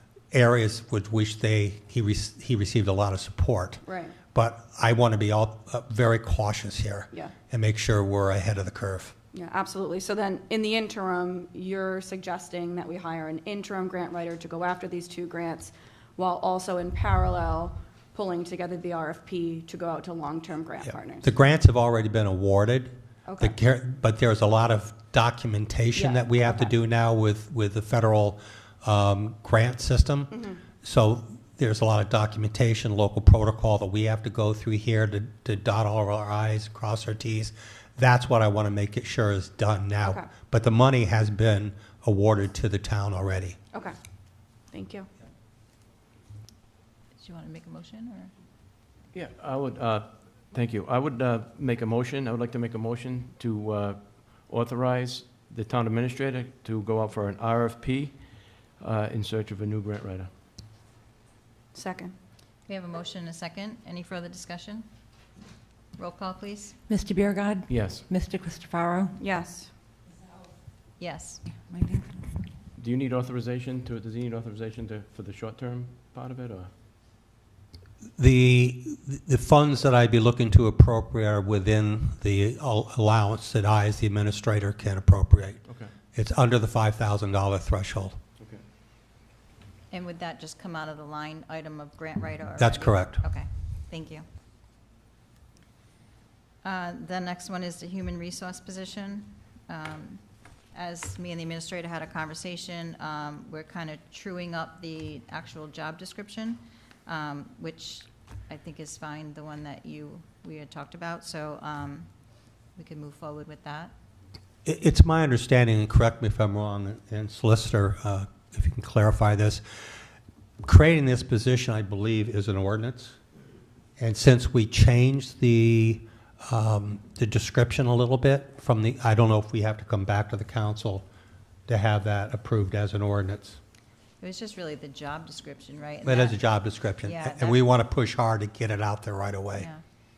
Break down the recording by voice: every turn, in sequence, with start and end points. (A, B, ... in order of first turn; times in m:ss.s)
0:00.3-0:09.1 A
0:03.8-0:04.2 B
0:09.3-0:21.2 B
0:20.8-0:43.6 A
0:23.3-0:23.5 B
0:25.9-0:26.7 B
0:30.3-0:30.6 B
0:44.7-0:45.1 B
0:47.2-0:48.3 C
0:49.1-1:00.3 D
1:01.7-1:02.1 B
1:02.7-1:04.8 C
1:06.0-1:06.8 C
1:06.9-1:09.2 E
1:07.7-1:08.1 D
1:09.2-1:09.7 B
1:11.0-1:11.4 C
1:11.5-1:12.4 E
1:12.8-1:16.7 D
1:18.2-1:25.6 A
1:25.6-1:25.9 D
1:26.1-1:28.2 A
1:29.9-1:34.2 C
1:32.6-1:33.2 A
1:36.6-1:40.2 C
1:40.7-1:52.1 C
1:52.8-1:53.9 C
1:54.6-1:59.6 A
2:00.6-2:03.2 A
2:04.0-2:11.0 A
2:11.7-2:13.6 A
2:14.2-2:16.4 C
2:16.0-2:19.7 A
2:17.0-2:17.6 C
2:19.5-2:19.8 C